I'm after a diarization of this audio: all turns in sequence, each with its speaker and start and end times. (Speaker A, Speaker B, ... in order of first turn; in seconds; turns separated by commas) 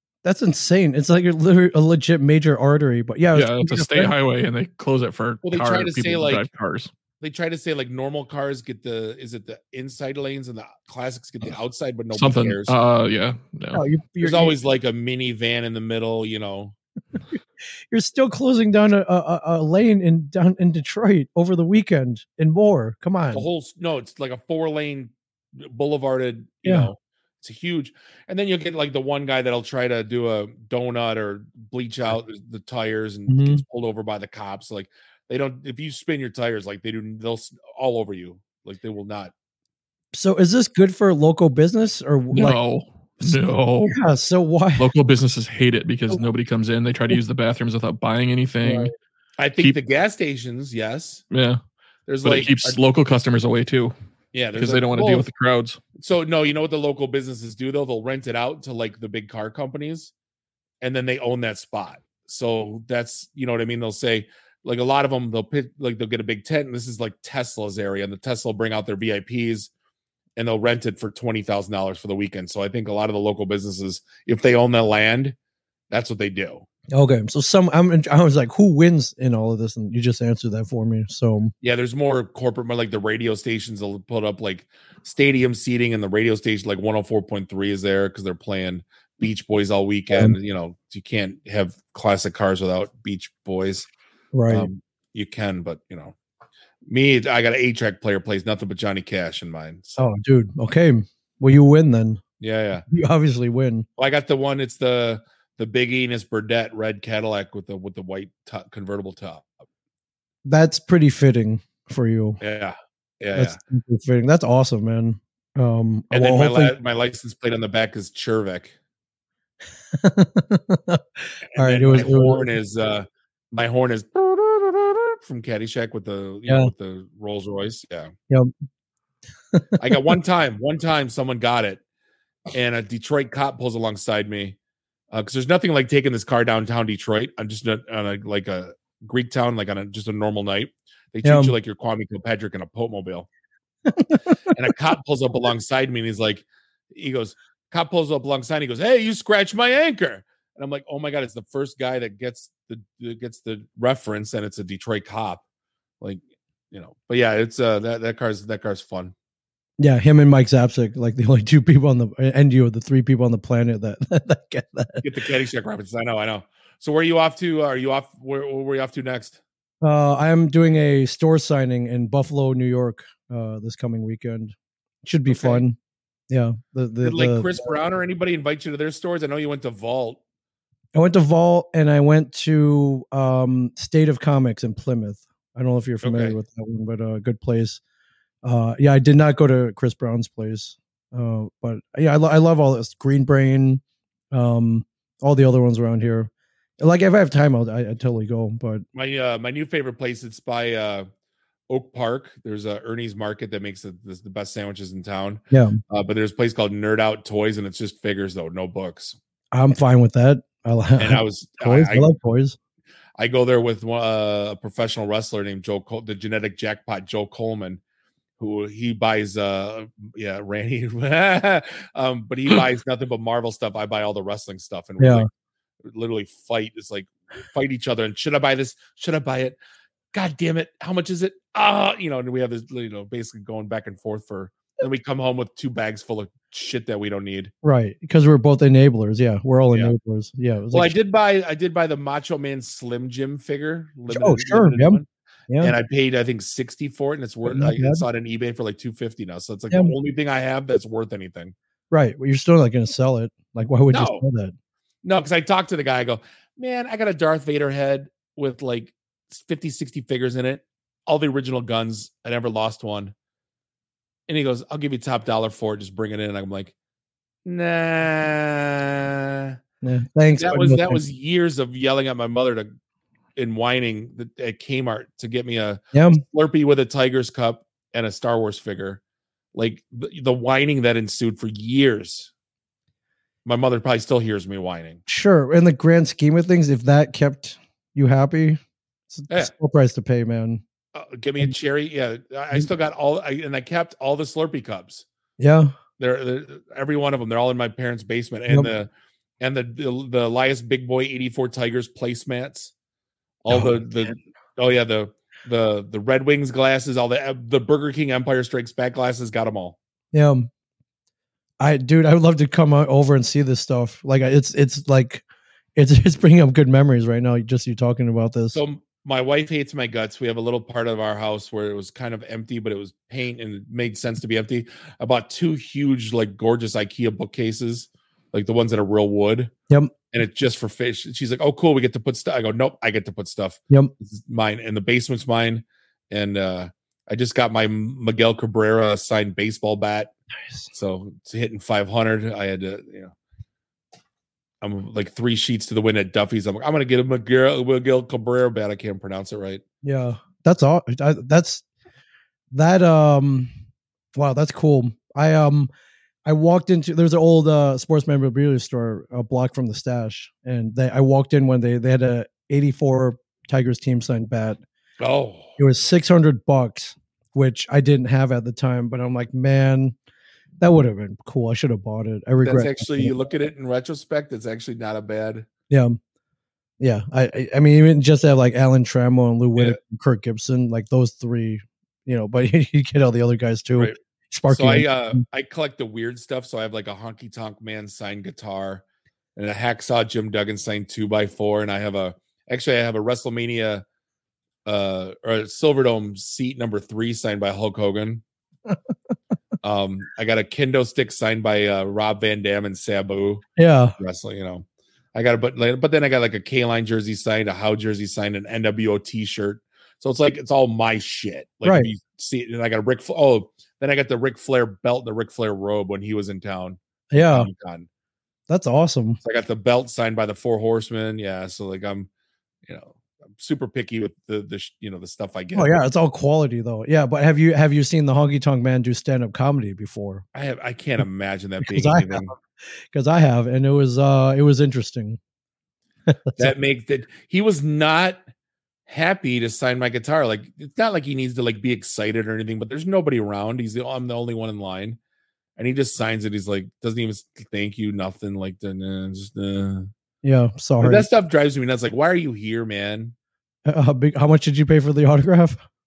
Speaker A: 0.2-4.1, Speaker B: 3.3-6.9, Speaker C: 5.4-6.5, Speaker C: 7.2-12.8, Speaker B: 12.1-13.8, Speaker A: 13.7-14.6, Speaker C: 14.2-16.8, Speaker A: 17.9-23.5, Speaker C: 23.3-39.3, Speaker A: 26.6-26.9, Speaker A: 33.3-33.6, Speaker A: 40.1-42.6, Speaker B: 42.3-44.0, Speaker A: 43.2-44.9, Speaker B: 44.8-48.9, Speaker A: 48.6-48.9, Speaker C: 49.4-51.2, Speaker B: 51.3-51.6, Speaker C: 52.1-52.8, Speaker B: 52.2-53.9, Speaker C: 54.3-55.3, Speaker B: 54.6-55.8, Speaker C: 56.0-60.1, Speaker C: 60.8-69.7, Speaker C: 70.4-75.3, Speaker C: 75.9-76.7, Speaker A: 76.9-81.5, Speaker C: 81.6-93.9, Speaker A: 94.3-94.7, Speaker C: 94.5-96.2, Speaker C: 96.9-100.0, Speaker A: 100.0-102.2, Speaker C: 102.4-102.8, Speaker A: 102.9-103.9, Speaker C: 104.0-109.5, Speaker A: 110.5-112.4, Speaker C: 112.4-113.6, Speaker A: 113.3-116.8, Speaker C: 116.1-118.7, Speaker A: 119.9-122.5, Speaker C: 121.5-128.1, Speaker A: 126.5-126.7, Speaker A: 129.5-130.2, Speaker C: 129.8-131.8, Speaker C: 132.5-134.6, Speaker C: 135.1-143.3, Speaker A: 141.2-141.5, Speaker A: 143.9-144.3, Speaker C: 144.5-155.4, Speaker C: 156.0-159.1, Speaker A: 159.8-165.0, Speaker C: 165.0-169.4, Speaker A: 169.8-175.8, Speaker C: 175.3-175.6, Speaker A: 176.3-177.5, Speaker C: 177.0-180.2, Speaker A: 180.9-187.8, Speaker C: 186.0-186.4, Speaker A: 188.4-193.8, Speaker A: 194.3-198.8, Speaker C: 198.9-201.1, Speaker C: 201.7-209.2, Speaker A: 205.5-205.8, Speaker A: 209.5-212.6, Speaker C: 211.0-212.1, Speaker C: 213.2-217.8, Speaker C: 218.4-225.3, Speaker A: 225.0-225.3, Speaker C: 225.9-229.6, Speaker C: 230.1-237.5, Speaker A: 237.6-240.9, Speaker C: 240.7-245.1, Speaker A: 244.1-245.7, Speaker C: 245.6-251.6, Speaker A: 247.5-248.1, Speaker A: 251.9-254.5, Speaker C: 253.9-254.2, Speaker C: 255.0-263.1, Speaker C: 264.3-266.7, Speaker C: 267.4-269.6, Speaker A: 269.8-271.0, Speaker C: 270.4-272.7, Speaker C: 273.4-279.0, Speaker A: 275.9-276.2, Speaker C: 279.5-282.3, Speaker C: 283.4-285.0, Speaker A: 285.1-288.6, Speaker A: 289.1-290.6, Speaker C: 290.9-295.1, Speaker A: 295.4-295.7, Speaker C: 296.0-302.7, Speaker C: 303.4-309.8, Speaker A: 310.1-310.5, Speaker A: 311.6-315.2, Speaker A: 315.8-318.6, Speaker C: 318.5-329.5, Speaker C: 330.1-340.1, Speaker C: 340.7-343.1, Speaker C: 344.6-349.6, Speaker A: 349.8-351.6, Speaker A: 352.5-353.5, Speaker A: 354.2-355.7, Speaker A: 356.2-364.6, Speaker C: 365.0-365.6, Speaker A: 365.6-369.9, Speaker A: 370.6-373.1, Speaker C: 372.4-375.5, Speaker A: 375.7-376.0, Speaker A: 376.8-385.2, Speaker C: 384.5-388.8, Speaker C: 389.4-393.9, Speaker C: 394.7-398.2, Speaker C: 399.6-403.4, Speaker A: 403.6-403.9, Speaker C: 404.0-417.9, Speaker A: 411.6-411.9, Speaker A: 417.1-417.5, Speaker A: 418.5-419.2, Speaker C: 419.2-422.1, Speaker C: 422.7-425.8, Speaker A: 425.6-430.2, Speaker C: 430.3-432.3, Speaker A: 431.6-432.4, Speaker A: 432.9-435.2, Speaker A: 436.1-436.5, Speaker C: 436.4-438.2, Speaker C: 438.9-445.0, Speaker C: 445.6-449.9, Speaker A: 450.2-451.1, Speaker C: 450.8-453.1, Speaker A: 453.7-455.6